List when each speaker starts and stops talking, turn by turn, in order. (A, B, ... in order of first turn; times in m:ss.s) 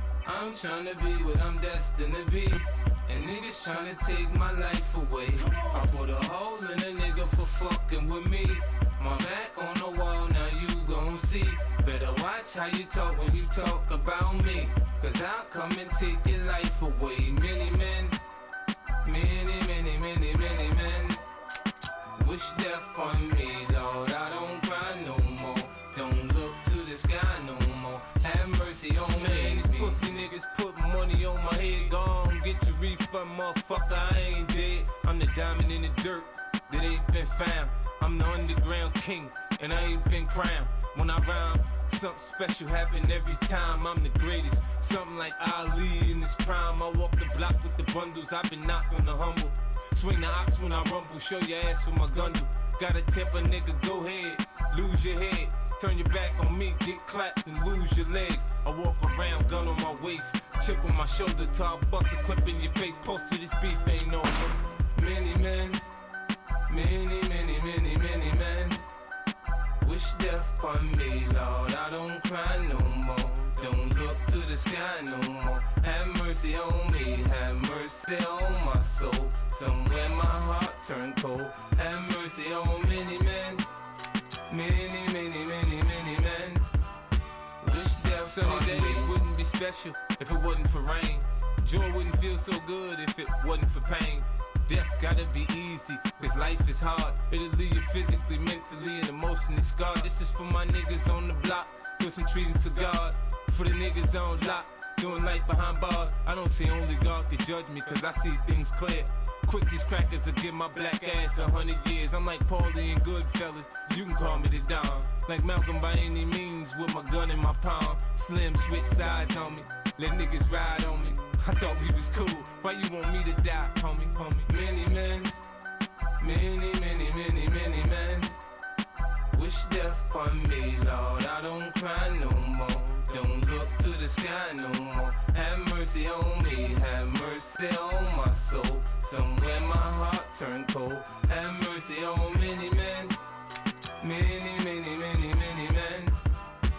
0:00.2-0:18.2 A
0:19.0-0:21.2 A
0:22.1-1:05.8 A
1:06.7-1:08.8 A
1:09.8-1:23.6 A
1:24.5-1:26.7 A
1:27.6-2:05.3 A
2:06.2-2:08.3 A
2:09.3-2:23.1 A
2:24.0-2:26.2 A